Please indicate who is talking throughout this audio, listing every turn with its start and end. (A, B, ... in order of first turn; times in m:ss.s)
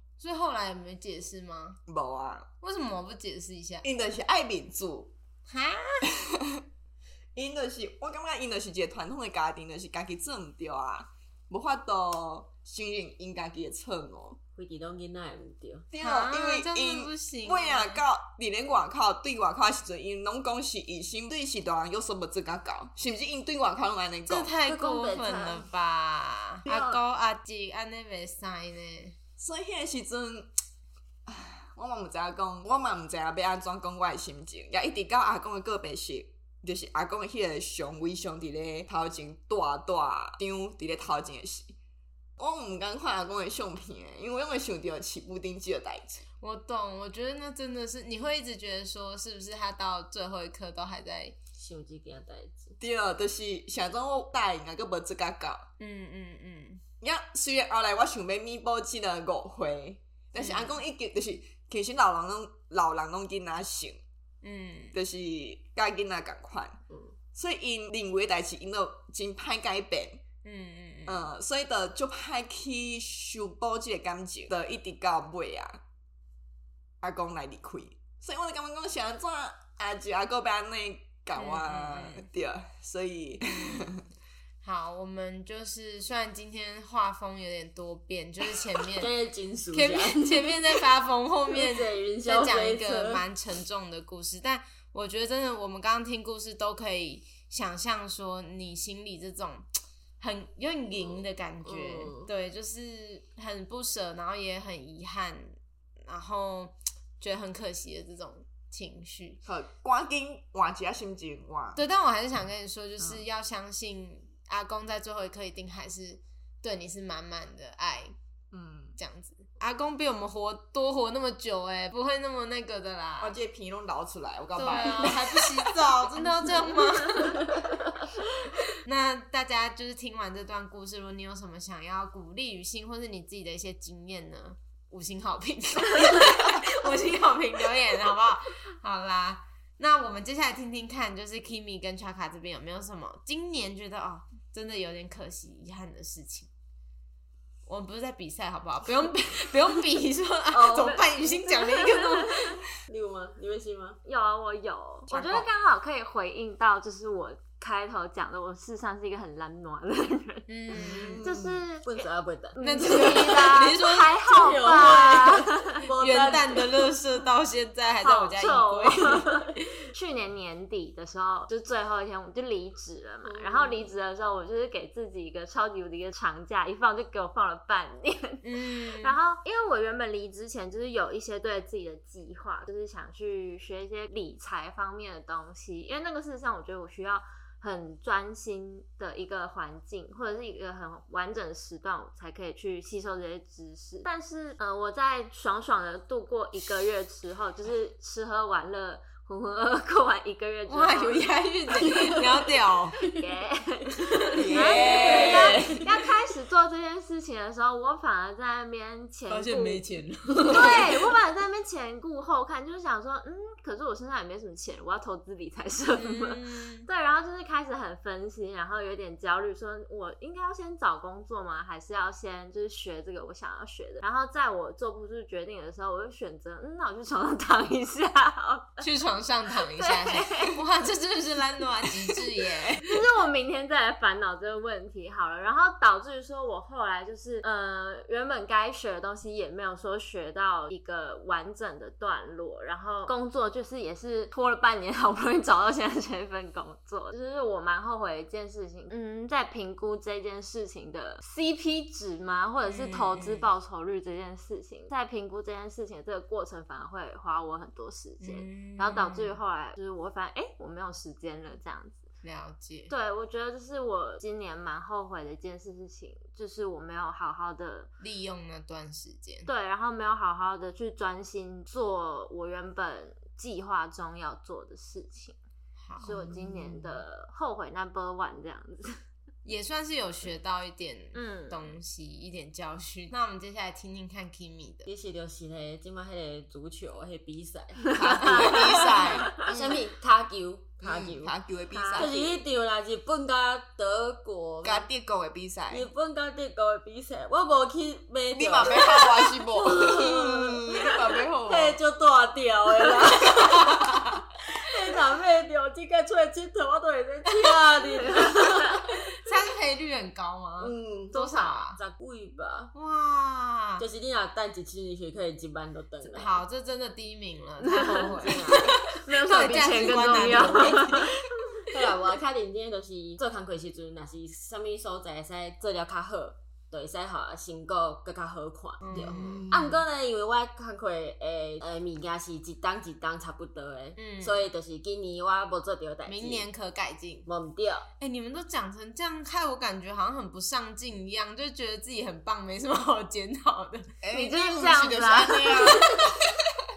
0:00.2-0:01.8 A
0:01.9-0:02.5 B
0:02.6-0:03.8 A
0:03.8-0:05.1 B
0:05.5-0:06.1 A
0:06.2-0:06.6 B
0:07.3-0:14.4 B
0:14.6-0:15.8 C
0:15.9-0:24.5 B
0:16.0-0:18.0 A
0:24.3-0:29.1 A
0:24.6-0:25.6 C
0:26.7-0:27.0 C
0:29.4-0:30.5 B
0:31.2-0:41.7 B
0:42.4-0:46.2 B
0:46.4-0:51.4 A
0:51.5-0:52.8 C
0:52.8-0:55.7 B
0:55.8-0:56.8 A
0:57.0-1:04.0 B
1:00.4-1:00.8 A
1:04.4-1:04.9 A
1:04.9-1:06.8 B
1:07.3-1:10.2 B
1:10.4-1:11.2 A
1:11.1-1:15.8 B
1:17.0-1:24.0 B
1:21.3-1:22.2 A
1:23.4-1:23.9 A
1:24.6-1:29.1 A
1:29.0-1:30.8 C
1:29.7-1:39.7 A
1:31.5-1:33.2 C
1:40.2-1:49.4 A
1:41.6-1:42.3 C
1:49.4-1:51.8 B
1:51.8-1:58.1 A
1:53.0-1:53.2 B
1:58.5-1:59.0 B
1:59.0-2:03.4 A
2:03.2-2:05.7 B
2:04.5-2:07.5 A
2:08.8-2:26.5 A
2:27.7-2:32.6 A
2:30.5-2:32.4 D
2:32.9-2:34.0 C
2:34.0-2:40.5 D
2:35.1-2:35.5 B
2:40.5-2:41.2 A
2:40.7-2:41.6 B
2:41.2-2:46.6 D
2:41.8-2:46.9 C
2:42.6-2:45.5 A
2:46.0-2:49.8 A
2:48.0-3:21.3 D
2:53.2-2:54.0 C
2:58.4-2:59.2 A
3:20.6-3:23.0 A
3:21.8-3:22.4 D
3:23.1-3:29.8 D
3:24.0-3:25.9 A
3:24.3-3:25.6 B
3:24.4-3:25.8 C
3:29.3-3:31.1 A
3:30.4-3:48.8 D
3:35.9-3:36.9 A
3:48.8-3:53.0 A
3:49.7-3:50.6 D
3:52.8-4:22.0 D
4:12.6-4:13.5 A
4:18.2-4:19.4 A
4:22.2-4:22.9 A
4:22.9-4:27.9 D
4:28.0-4:29.5 A
4:29.4-4:35.4 D
4:35.8-4:36.2 A
4:36.0-4:39.0 D
4:36.2-4:36.9 B
4:39.4-4:44.9 A
4:41.1-4:41.7 D
4:44.9-4:51.3 C
4:47.9-4:49.8 D
4:47.9-4:49.4 B
4:50.8-4:52.2 B
4:51.7-4:52.3 D
4:51.9-4:54.9 C
4:54.6-4:55.9 B
4:55.7-5:08.9 C
4:58.3-5:01.8 B
5:03.4-5:04.1 A
5:08.0-5:08.7 D
5:09.1-5:11.8 A
5:10.6-5:12.7 C
5:12.7-5:13.8 A
5:13.8-5:16.4 C
5:16.0-5:21.1 A
5:17.6-5:21.6 D
5:17.9-5:18.7 C
5:19.9-5:20.9 C
5:21.6-5:36.4 C
5:28.8-5:29.5 A
5:29.0-5:29.8 B
5:34.0-5:34.5 A
5:36.0-5:37.3 A
5:37.2-5:37.9 C
5:38.0-5:43.9 A
5:44.0-5:46.6 B
5:44.1-5:45.9 D